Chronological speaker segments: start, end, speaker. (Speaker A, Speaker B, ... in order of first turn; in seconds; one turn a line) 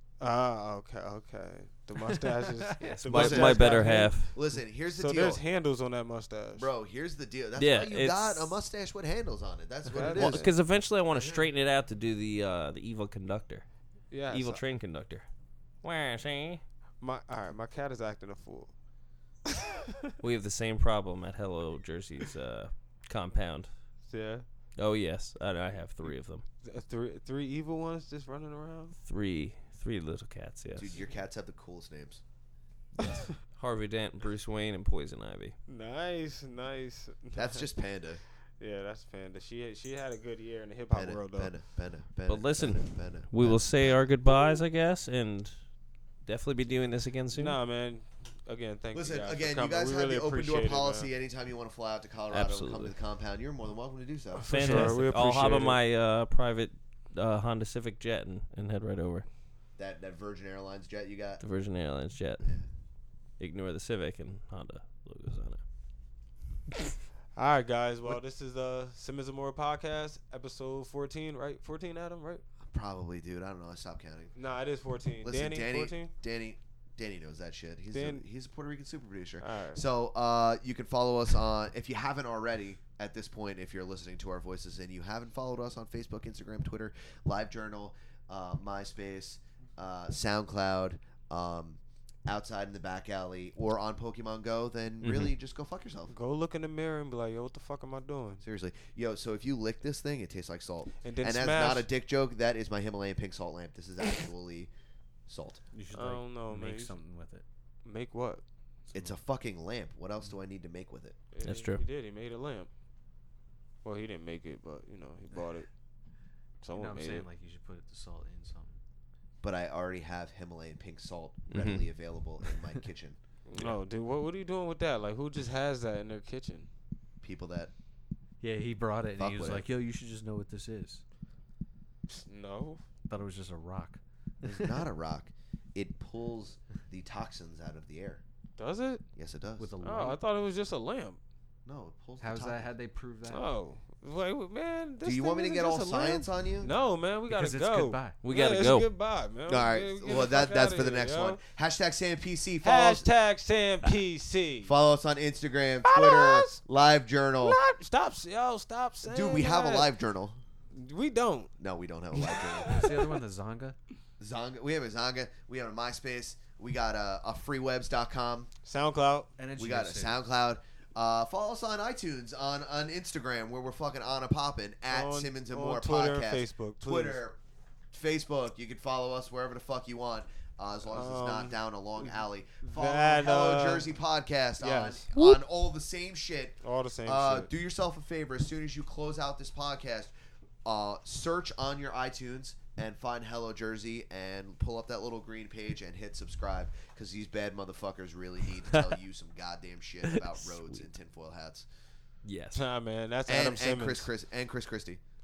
Speaker A: 0.2-6.7
Speaker B: 2.7-3.0
Speaker C: 2.8-4.3
Speaker D: 3.1-5.4
Speaker D: 6.5-10.5
Speaker C: 7.6-8.6
Speaker A: 9.9-10.5
Speaker C: 10.0-13.7
Speaker D: 11.1-11.5
Speaker A: 14.1-14.6
Speaker C: 14.3-15.2
Speaker C: 15.8-16.6
Speaker A: 17.0-18.7
Speaker C: 20.2-23.7
Speaker A: 24.1-24.4
Speaker C: 24.8-26.4
Speaker A: 26.6-29.0
Speaker C: 29.1-30.9
Speaker D: 30.7-32.2
Speaker A: 33.0-33.2
Speaker C: 33.6-35.5
Speaker A: 35.7-37.7
Speaker D: 37.3-38.2
Speaker A: 38.6-41.5
Speaker D: 40.9-44.1
Speaker C: 42.3-45.5
Speaker C: 46.2-47.6
Speaker A: 47.3-51.1
Speaker D: 48.9-55.0
Speaker C: 52.3-52.9
Speaker A: 54.3-55.8
Speaker C: 54.4-59.3
Speaker D: 59.8-61.4
Speaker C: 61.4-62.5
Speaker C: 63.4-65.6
Speaker A: 67.3-72.4
Speaker D: 72.6-74.3
Speaker A: 74.3-76.1
Speaker D: 75.2-96.1
Speaker A: 77.9-78.2
Speaker A: 79.4-79.8
Speaker C: 95.0-95.3
Speaker A: 96.1-98.4
Speaker D: 98.4-104.7
Speaker A: 101.0-101.9
Speaker D: 105.3-105.6
Speaker B: 105.7-107.4
Speaker A: 105.9-107.0
Speaker A: 107.8-108.4
Speaker D: 108.9-111.2
Speaker A: 111.3-112.7
Speaker C: 111.4-111.8
Speaker A: 113.8-115.7
Speaker A: 116.6-117.2
Speaker B: 116.7-118.8
Speaker D: 119.4-123.2
Speaker C: 121.5-121.8
Speaker A: 123.5-126.7
Speaker D: 127.2-127.7
Speaker B: 128.4-131.0
Speaker D: 129.2-129.7
Speaker A: 132.1-132.8
Speaker B: 133.1-134.0
Speaker D: 134.4-138.2
Speaker A: 138.6-139.0
Speaker D: 139.2-139.7
Speaker B: 139.6-140.2
Speaker A: 139.8-141.2
Speaker D: 141.6-142.7
Speaker B: 142.2-143.5
Speaker A: 143.3-151.4
Speaker D: 145.0-146.7
Speaker B: 147.3-148.2
Speaker C: 148.2-148.9
Speaker D: 149.5-153.1
Speaker A: 152.6-154.7
Speaker D: 154.6-157.6
Speaker A: 155.8-156.6
Speaker A: 157.4-159.9
Speaker D: 159.0-160.4
Speaker A: 160.7-161.5
Speaker D: 161.6-162.8
Speaker A: 162.2-163.1
Speaker B: 162.7-163.8
Speaker D: 164.2-168.5
Speaker A: 168.6-169.3
Speaker B: 169.4-170.2
Speaker D: 169.6-177.4
Speaker A: 174.9-177.2
Speaker D: 177.9-190.1
Speaker A: 180.9-183.9
Speaker A: 184.6-185.1
Speaker A: 186.6-187.5
Speaker D: 190.6-201.7
Speaker C: 202.2-202.7
Speaker A: 202.5-204.1
Speaker D: 203.3-205.0